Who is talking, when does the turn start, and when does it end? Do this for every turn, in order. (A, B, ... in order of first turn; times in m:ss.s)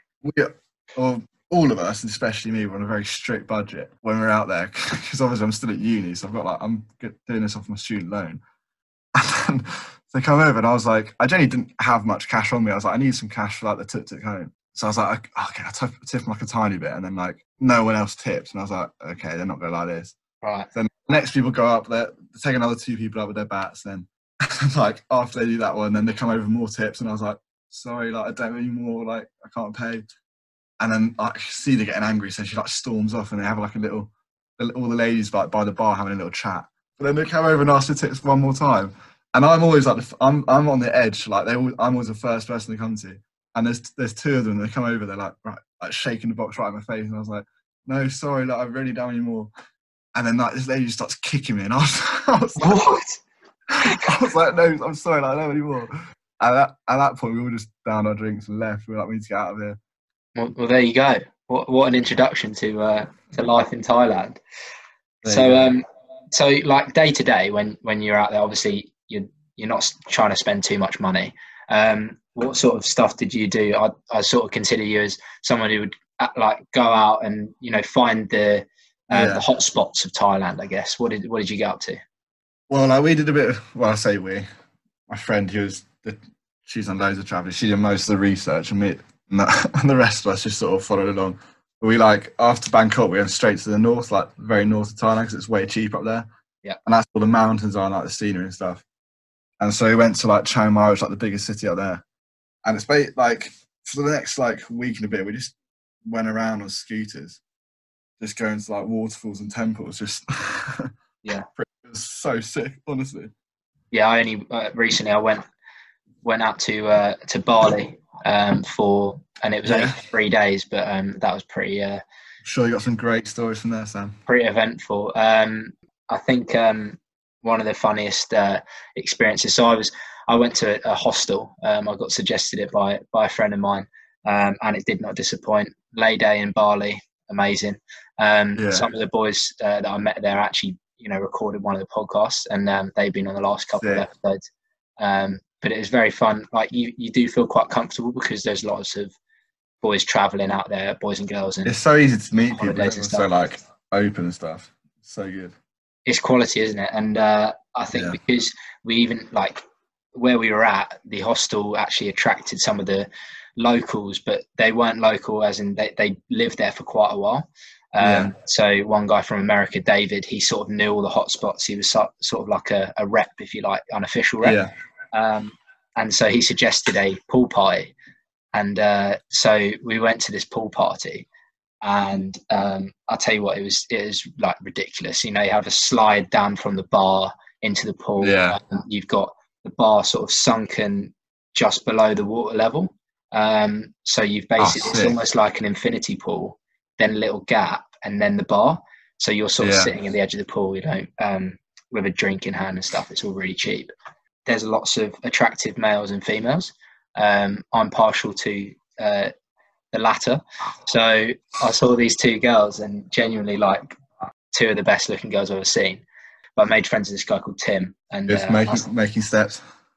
0:00.2-0:08.4 A
0:09.1-0:20.2 A
0:20.4-0:20.7 B
0:20.8-0:30.0 A
0:30.8-0:49.5 A
0:50.1-0:52.8 A
0:52.6-0:53.2 B
0:53.8-0:59.8 A
0:53.8-0:54.1 B
1:00.4-1:04.4 B
1:05.2-1:05.7 A
1:05.2-1:22.0 B
1:19.1-1:19.4 A
1:22.7-1:24.5 A
1:25.1-1:36.3 A
1:36.9-1:38.8 A
1:39.6-1:42.0 A
1:42.6-1:45.5 A
1:46.1-1:47.4 A
1:48.2-1:50.9 A
1:51.6-1:53.3 A
1:53.9-1:55.4 B
1:56.2-2:02.0 B
1:59.6-2:00.0 A
2:02.4-2:04.2 A
2:04.3-2:24.4 B
2:18.6-2:18.9 A
2:23.8-2:24.1 A
2:25.0-2:29.1 B
2:29.8-2:31.7 B
2:31.6-2:35.5 A
2:32.6-2:33.3 B
2:36.1-2:39.6 B
2:37.9-2:38.2 A
2:40.1-2:54.6 B
2:48.0-2:48.3 A
2:54.4-2:54.7 A
2:55.1-2:57.9 B
2:58.5-3:01.3 B
3:01.8-3:23.9 B
3:08.2-3:08.6 A
3:14.6-3:15.2 A
3:19.6-3:19.9 A
3:24.5-3:29.3 B
3:29.9-3:34.0 B
3:34.5-3:36.0 B
3:36.6-3:38.9 B
3:38.3-3:39.6 A